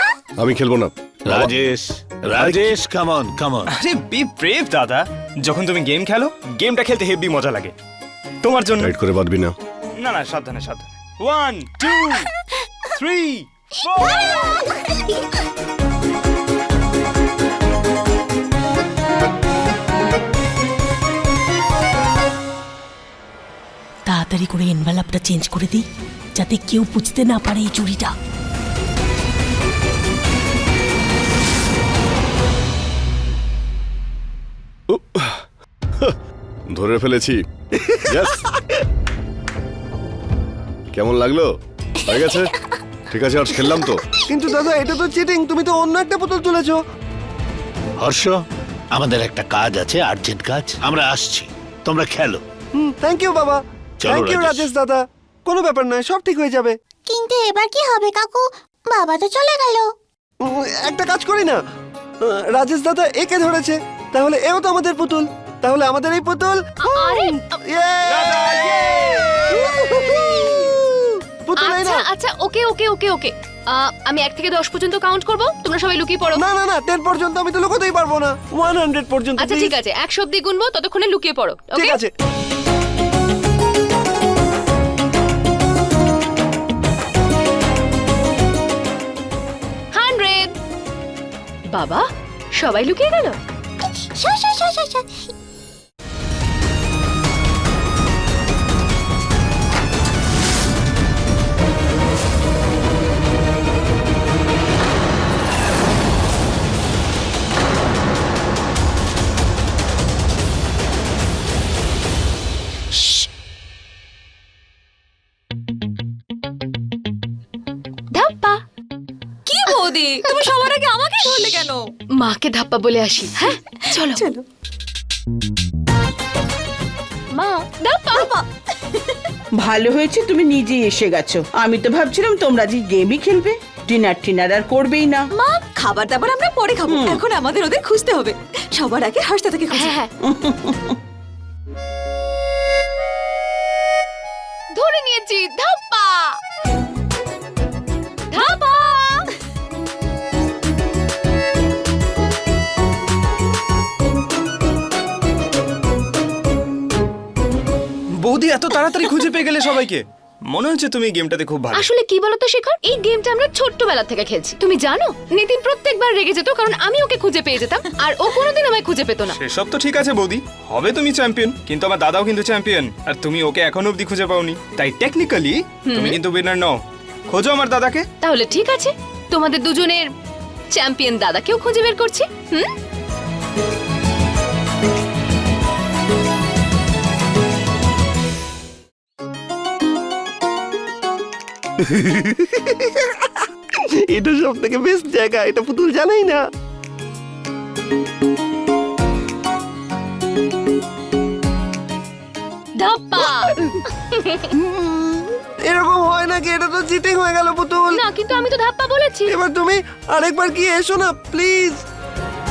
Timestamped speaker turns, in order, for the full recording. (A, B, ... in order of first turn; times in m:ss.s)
0:00.4-0:01.5 A
0:01.2-0:03.7 B
0:02.3-0:02.8 A
0:03.8-0:07.7 C
0:08.4-0:08.9 C
0:08.8-0:09.5 A
0:10.0-0:12.2 C
0:13.0-0:14.6 C
0:24.1-0:25.8 D
0:26.4-0:28.1 D
0:34.9-0:35.4 A
0:36.7-0:37.4 A
0:38.1-0:38.4 A
0:40.9-0:41.5 A
0:42.0-0:42.5 A
0:43.1-0:44.0 A
0:44.3-0:46.8 E
0:48.0-0:48.4 B
0:49.0-0:52.4 B
0:52.8-0:56.8 E
0:54.0-0:54.7 B
0:57.1-0:59.9 F
1:00.4-1:01.6 E
1:02.2-1:12.0 E
1:06.8-1:07.4 G
1:08.1-1:09.4 C
1:11.6-1:16.4 G
1:16.3-1:19.7 E
1:19.4-1:22.0 G
1:21.7-1:22.1 E
1:29.9-1:30.5 G
1:31.7-1:32.0 G
1:32.6-1:33.4 G
1:34.2-1:35.0 F
1:58.1-1:58.6 G
1:59.4-2:01.9 H
2:02.2-2:04.2 G
2:04.1-2:04.4 H
2:07.3-2:08.3 G
2:08.1-2:08.4 H
2:09.6-2:15.3 I
2:15.4-2:20.0 H
2:16.9-2:17.2 I
2:19.7-2:20.1 G
2:20.3-2:20.7 I
2:24.7-2:26.4 G
2:28.3-2:29.2 G
2:38.2-2:40.0 C
2:40.5-2:41.8 C
2:41.7-2:49.4 G
2:49.4-2:56.8 C
2:55.8-2:56.2 G
2:57.3-2:58.0 C
2:58.2-3:00.1 G
3:00.7-3:02.7 G
3:11.8-3:13.1 E
3:14.1-3:16.4 E
3:22.8-3:23.5 G
3:24.1-3:24.4 G
3:24.5-3:28.0 E
3:27.9-3:29.3 G
3:29.3-3:31.8 E